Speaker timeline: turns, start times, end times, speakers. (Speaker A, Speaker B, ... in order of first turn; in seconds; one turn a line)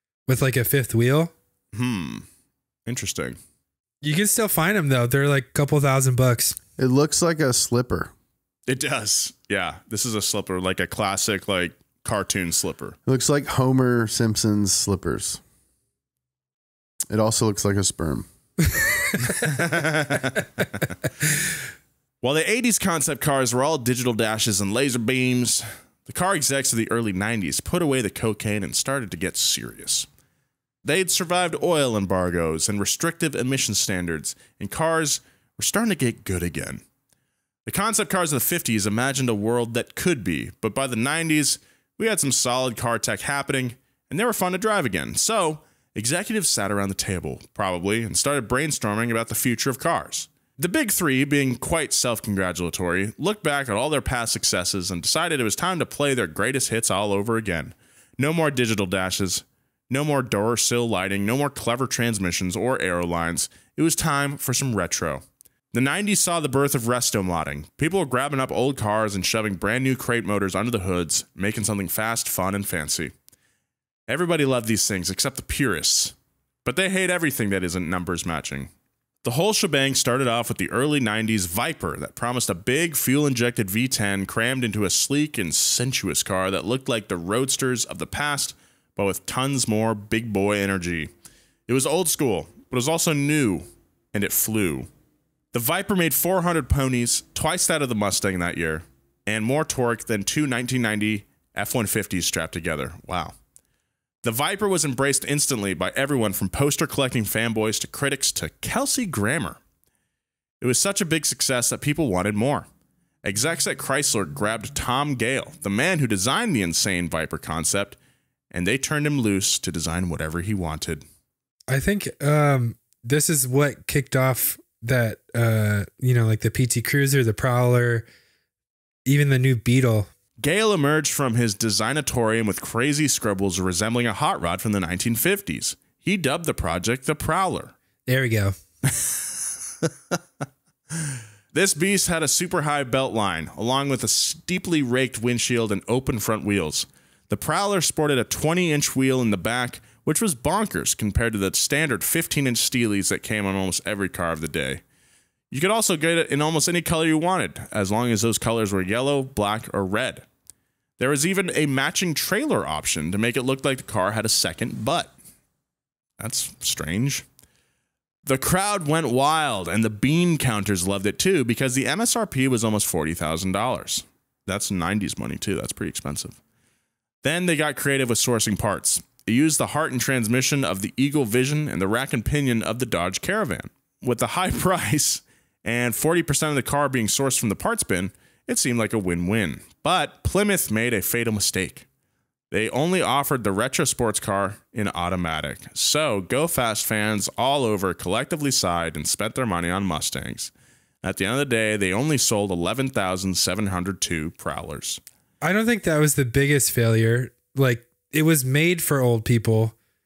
Speaker A: 0.3-1.3
Speaker B: 1.7-2.3
Speaker B: 2.9-3.4
Speaker A: 4.0-6.5
Speaker C: 6.8-8.1
Speaker B: 8.7-13.0
Speaker C: 13.1-15.4
Speaker C: 17.1-18.2
Speaker B: 19.2-20.9
Speaker B: 22.2-30.1
Speaker B: 30.8-36.8
Speaker B: 37.6-65.2
Speaker B: 65.7-73.1
Speaker B: 74.1-78.7
Speaker B: 79.2-91.1
Speaker B: 91.7-94.9
Speaker B: 95.5-103.3
Speaker B: 104.2-109.6
Speaker B: 110.6-112.7
Speaker B: 113.2-118.0
Speaker B: 118.5-121.0
Speaker A: 121.7-128.1
Speaker A: 129.1-130.1
Speaker B: 130.4-137.7
Speaker A: 138.1-138.5
Speaker B: 138.8-139.3
Speaker B: 140.9-154.8
Speaker B: 155.5-160.2
Speaker B: 161.0-165.1
Speaker B: 166.2-167.2
Speaker B: 168.2-176.4
Speaker B: 177.2-191.8
Speaker B: 192.5-200.5
Speaker B: 201.0-205.0
Speaker A: 205.4-209.7